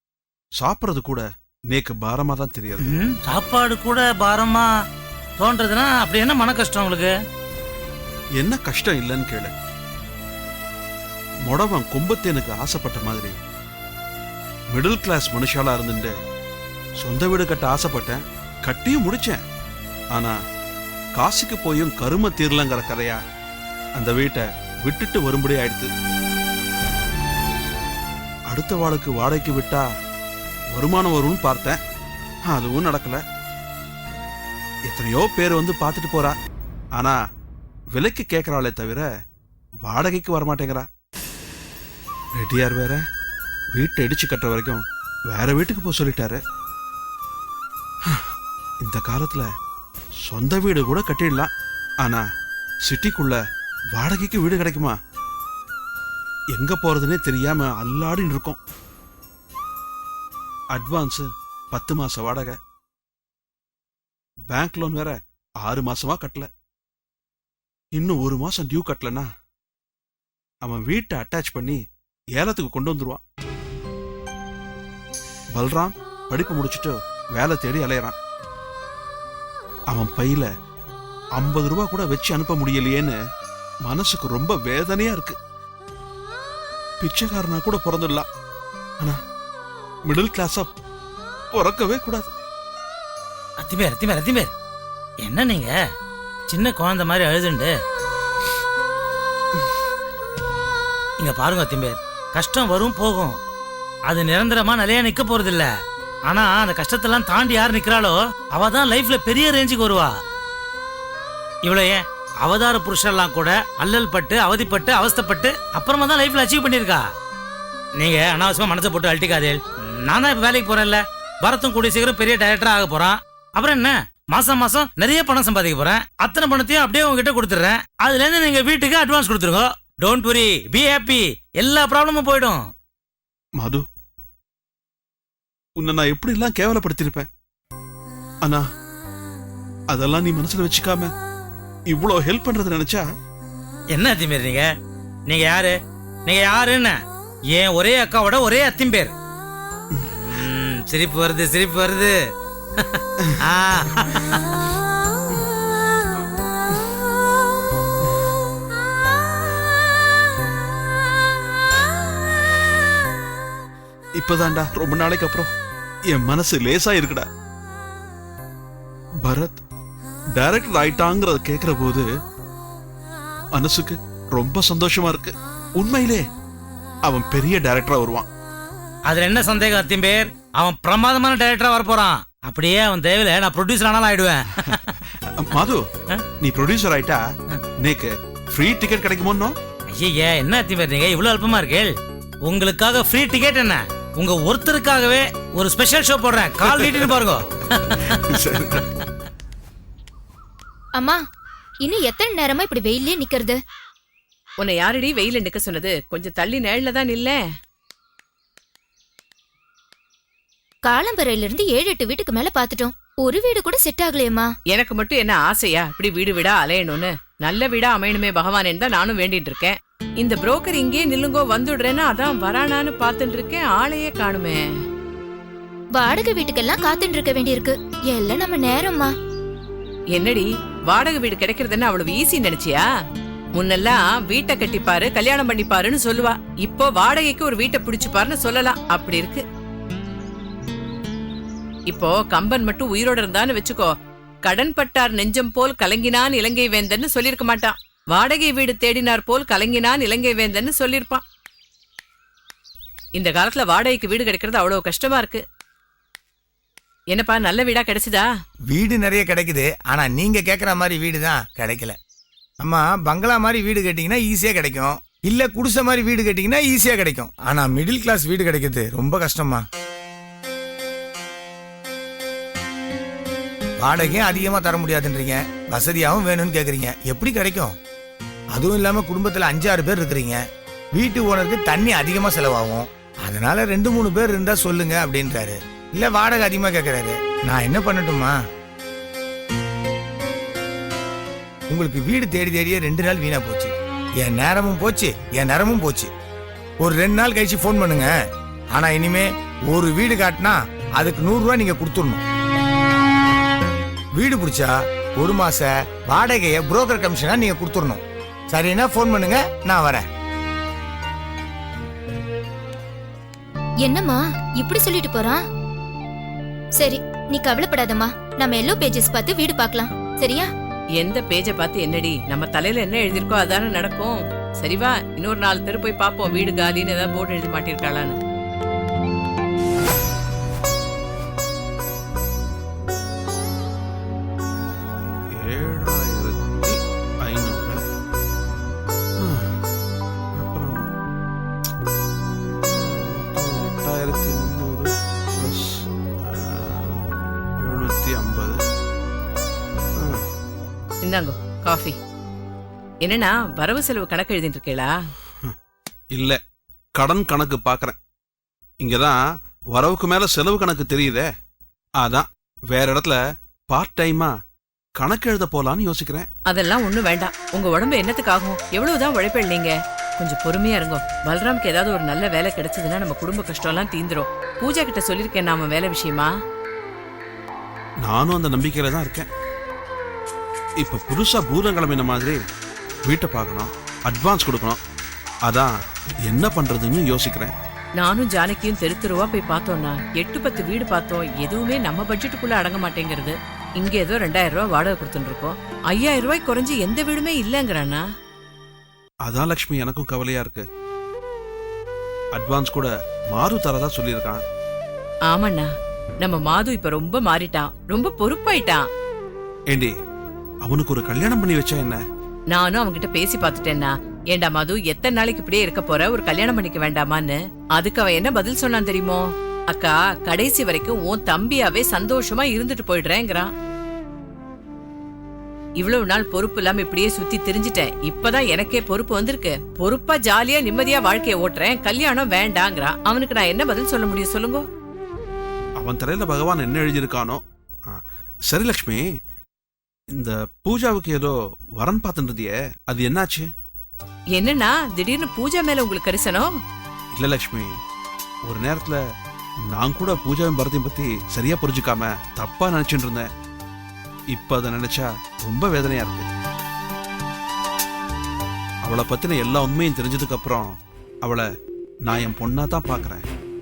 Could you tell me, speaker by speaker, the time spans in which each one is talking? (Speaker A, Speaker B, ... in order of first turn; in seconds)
Speaker A: 0.6-2.9, 8.4-9.5, 11.5-13.3, 14.7-16.1, 17.0-19.4, 21.2-23.2, 24.0-25.9, 28.5-29.9, 30.8-31.8, 32.5-33.2, 34.9-36.4, 37.9-39.1, 39.9-40.9, 42.4-43.0, 43.8-46.4, 48.8-49.5, 50.2-51.5, 52.8-53.4, 53.9-55.0, 56.6-58.6, 60.7-62.6, 64.5-66.5, 68.0-69.3, 70.6-71.8, 72.4-73.2, 75.5-78.2, 79.9-80.5, 81.4-83.2, 83.8-85.4, 87.0-88.3, 90.1-90.7, 91.5-92.3, 133.6-133.8, 135.8-137.3, 139.9-141.1, 141.9-143.0, 164.2-165.5, 166.1-167.3, 169.2-169.6, 170.4-172.1, 173.5-176.2, 177.1-178.3, 185.4-185.8, 186.4-187.2, 187.8-189.6, 198.3-198.8, 335.4-337.8, 339.2-339.6, 340.4-340.9, 342.8-347.0, 347.6-348.6, 357.0-358.0, 358.8-359.2, 359.7-361.3, 362.0-363.2, 363.7-364.3, 365.0-366.3, 378.0-379.3, 380.8-382.4, 383.1-384.8, 386.3-387.5, 399.2-400.6, 402.3-404.4, 410.6-412.0, 435.8-439.0, 440.1-443.5, 447.1-447.7, 448.5-449.0, 449.7-453.3, 454.4-456.3, 458.9-461.5, 462.1-463.2
Speaker B: 2.8-4.7, 5.4-7.1, 93.6-94.5, 95.2-95.7, 96.5-97.7, 101.2-103.4, 104.1-105.7, 106.3-110.1, 111.7-117.0, 118.0-132.7, 143.9-144.7, 145.3-147.0, 147.5-149.1, 150.1-152.2, 152.8-154.4, 179.1-185.0, 189.9-191.9, 192.4-198.4
Speaker C: 201.8-203.6, 210.8-214.5, 225.9-229.1, 313.9-315.4, 316.8-320.5
Speaker D: 204.6-207.4, 214.7-224.6, 230.2-232.8, 233.6-239.4, 241.9-243.9, 244.5-251.2, 253.2-255.4, 257.1-258.2, 321.0-328.1, 351.0-352.0, 353.0-354.9, 366.5-376.3, 388.0-398.0, 405.3-405.7, 406.2-408.9, 412.5-423.5, 425.8-434.6, 444.4-446.5
Speaker E: 258.7-262.0, 262.6-269.6, 273.8-277.8, 278.6-280.4, 280.9-288.4, 291.7-296.1, 296.8-298.1, 298.7-302.2, 304.2-310.0